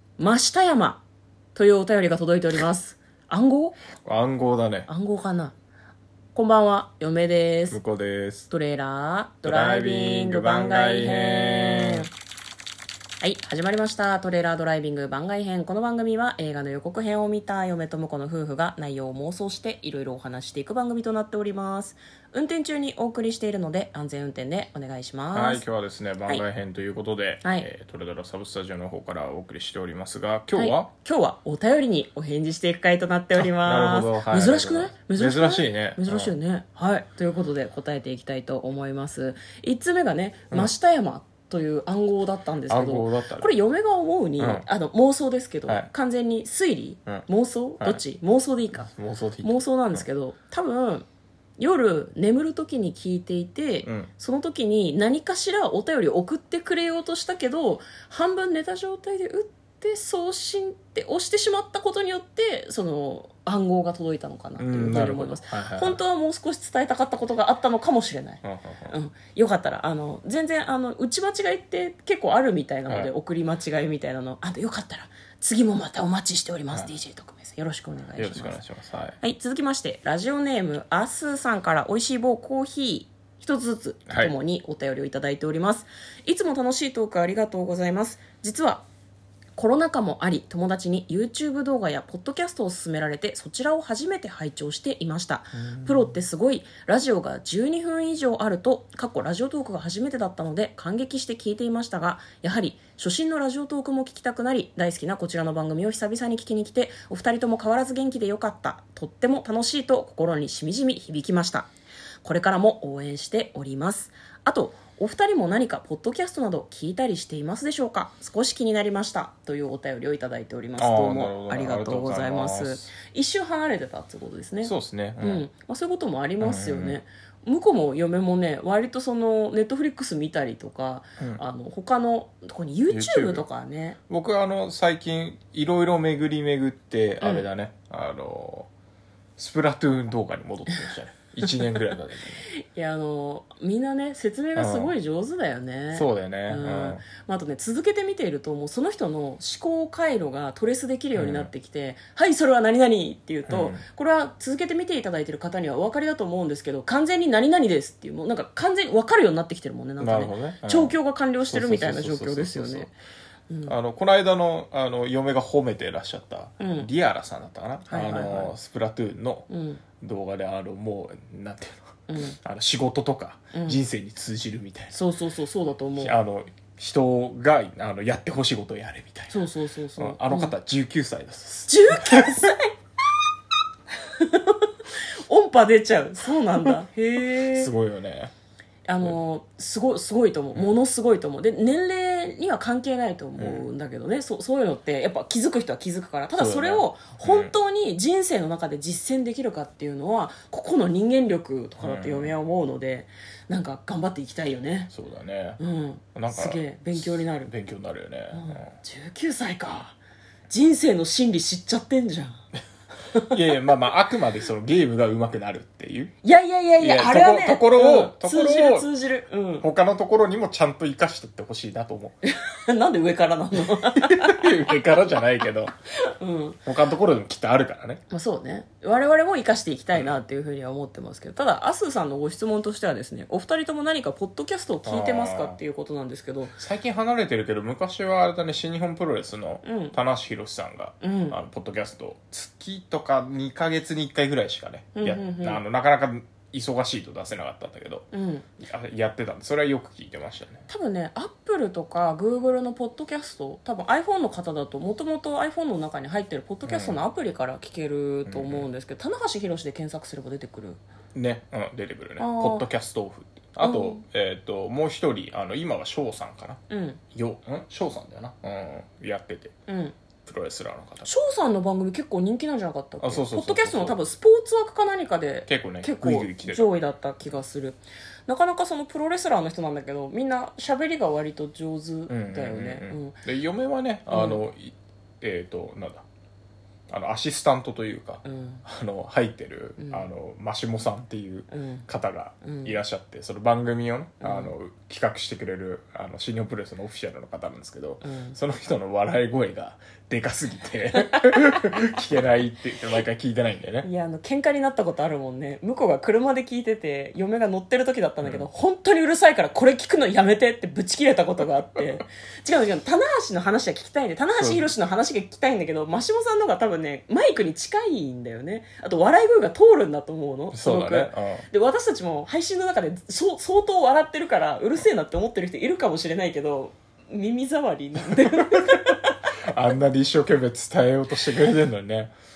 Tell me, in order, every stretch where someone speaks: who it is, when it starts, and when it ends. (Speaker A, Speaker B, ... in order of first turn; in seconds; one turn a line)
Speaker A: 0.2-1.0
Speaker A: 1.6-3.8
Speaker B: 4.0-4.9
Speaker A: 4.9-5.5
Speaker A: 6.3-7.8
Speaker B: 7.7-8.5
Speaker A: 8.5-12.1
Speaker B: 9.4-12.1
Speaker A: 13.2-25.6
Speaker B: 25.3-30.9
Speaker A: 27.4-27.7
Speaker A: 30.6-48.9
Speaker B: 33.4-36.3
Speaker B: 42.7-43.5
Speaker B: 44.4-44.7
Speaker B: 48.7-50.0
Speaker A: 49.4-51.1
Speaker A: 51.6-78.6
Speaker B: 53.8-54.1
Speaker B: 64.6-66.0
Speaker B: 68.4-69.0
Speaker B: 78.2-79.2
Speaker A: 79.2-88.8
Speaker B: 84.1-84.3
Speaker A: 89.6-111.7
Speaker B: 95.6-96.1
Speaker A: 112.2-134.0
Speaker B: 120.8-122.9
Speaker B: 124.6-125.5
Speaker B: 126.4-127.0
Speaker B: 132.9-133.4
Speaker B: 134.1-138.7
Speaker B: 139.4-142.4
Speaker A: 142.7-163.0
Speaker B: 144.6-144.9
Speaker B: 145.9-147.0
Speaker B: 151.2-151.5
Speaker B: 153.5-153.8
Speaker B: 160.0-161.0
Speaker B: 161.5-162.9
Speaker A: 163.5-163.8
Speaker B: 163.7-169.5
Speaker A: 166.6-166.9
Speaker A: 167.9-168.5
Speaker A: 169.5-169.8
Speaker B: 170.0-175.0
Speaker A: 172.1-172.4
Speaker A: 173.5-173.8
Speaker A: 174.9-176.2
Speaker B: 176.0-179.4
Speaker A: 179.3-180.6
Speaker B: 180.0-182.5
Speaker A: 181.7-182.7
Speaker A: 184.0-184.7
Speaker A: 185.3-187.7
Speaker B: 187.5-188.3
Speaker A: 188.9-204.9
Speaker B: 193.4-193.7
Speaker B: 196.3-197.6
Speaker B: 201.8-202.3
Speaker B: 204.9-205.6
Speaker A: 205.6-207.5
Speaker B: 206.2-208.7
Speaker A: 208.3-210.0
Speaker A: 210.5-212.4
Speaker B: 213.3-216.1
Speaker A: 216.2-219.7
Speaker B: 216.8-218.9
Speaker B: 219.6-222.2
Speaker A: 222.2-224.6
Speaker B: 223.8-225.7
Speaker A: 226.1-226.6
Speaker B: 226.7-228.0
Speaker A: 228.1-236.6
Speaker B: 234.8-235.6
Speaker B: 236.6-248.1
Speaker A: 239.6-240.0
Speaker A: 241.0-241.4
Speaker A: 245.0-245.6
Speaker A: 248.1-248.5
Speaker B: 248.6-250.7
Speaker A: 250.7-260.8
Speaker B: 256.7-257.0
Speaker B: 258.3-258.7
Speaker B: 261.1-266.6
Speaker A: 262.2-262.7
Speaker A: 263.6-264.0
Speaker A: 266.7-267.0
Speaker B: 267.1-269.6
Speaker A: 269.7-269.9
Speaker B: 270.2-271.1
Speaker A: 271.1-283.2
Speaker B: 273.0-274.0
Speaker B: 275.5-276.8
Speaker B: 282.1-286.0
Speaker A: 284.1-284.4
Speaker B: 286.9-303.9
Speaker A: 288.2-288.6
Speaker A: 289.8-290.1
Speaker A: 291.5-291.9
Speaker A: 292.4-292.8
Speaker A: 294.2-294.5
Speaker A: 298.0-298.4
Speaker A: 303.8-329.2
Speaker B: 308.2-308.5
Speaker B: 314.4-314.7
Speaker B: 320.5-321.5
Speaker B: 328.4-328.8
Speaker B: 329.5-332.1